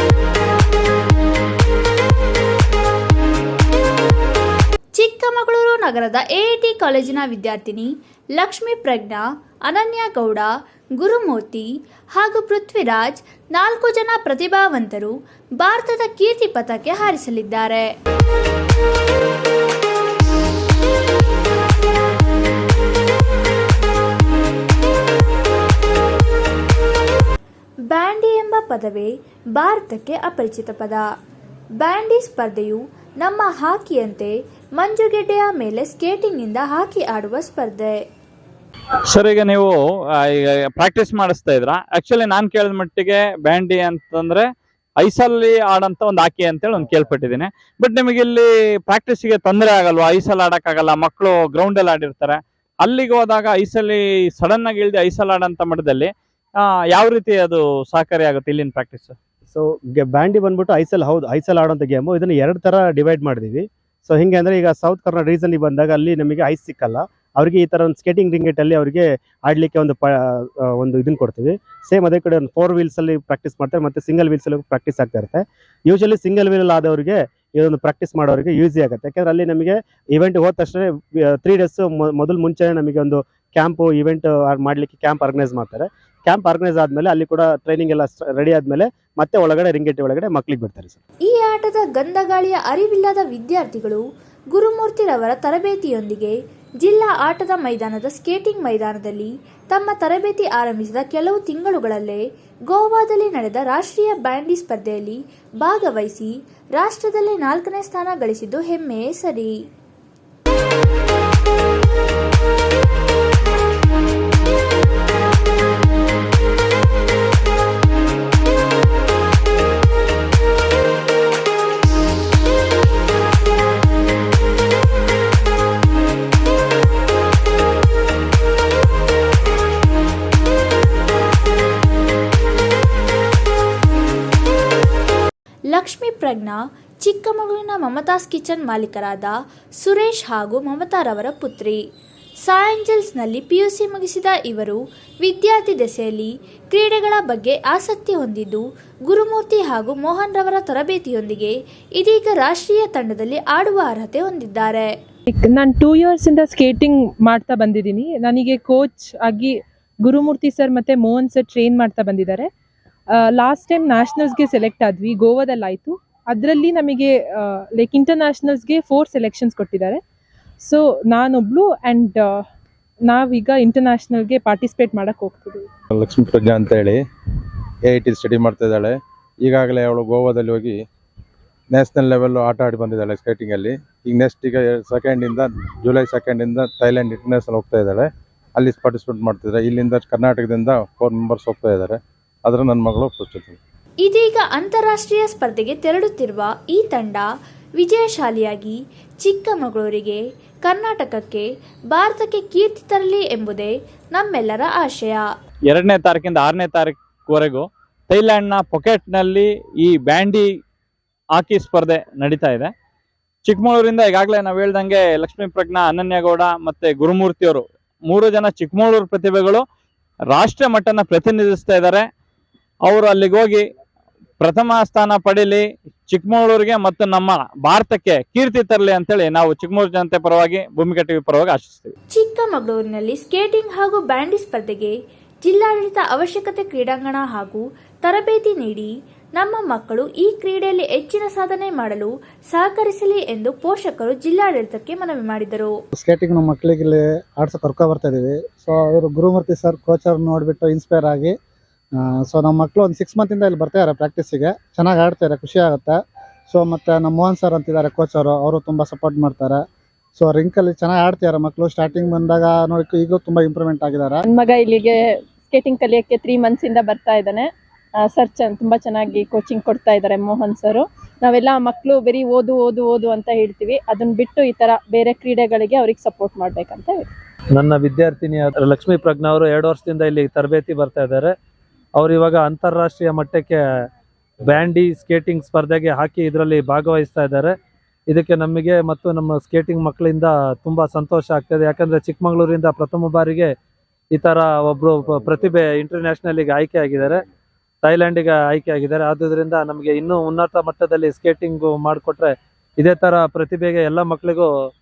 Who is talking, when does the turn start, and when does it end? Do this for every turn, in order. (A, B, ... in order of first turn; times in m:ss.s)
0:05.0-0:17.9 A
0:27.9-0:31.0 A
0:31.8-0:38.0 A
0:39.1-0:44.5 B
0:45.0-0:56.1 B
0:56.6-0:59.2 B
0:59.5-1:31.0 C
1:31.3-1:34.0 A
1:34.5-1:49.6 A
2:15.7-2:21.8 A
2:22.4-2:34.9 A
2:35.3-2:42.5 D
2:43.1-2:50.0 D
2:50.6-2:52.4 D
2:53.1-2:55.7 D
2:56.0-2:57.0 E
2:57.9-3:00.8 E
3:01.7-3:13.6 E
3:14.0-3:17.3 A
3:17.8-3:25.2 A
3:25.7-3:30.5 B
3:31.4-3:32.7 B
3:33.4-3:39.6 B
3:40.3-3:42.0 B
3:42.9-3:43.6 B
3:44.4-3:51.9 B
3:52.1-4:05.7 A
4:06.0-4:11.3 F
4:12.3-4:16.0 F
4:16.5-4:19.6 F
4:20.2-4:24.2 F
4:24.3-4:37.1 G
4:37.5-4:41.4 H
4:42.0-4:43.6 H
4:44.4-4:47.6 H
4:48.1-4:53.6 H
4:54.1-4:57.2 H
4:57.8-5:04.5 H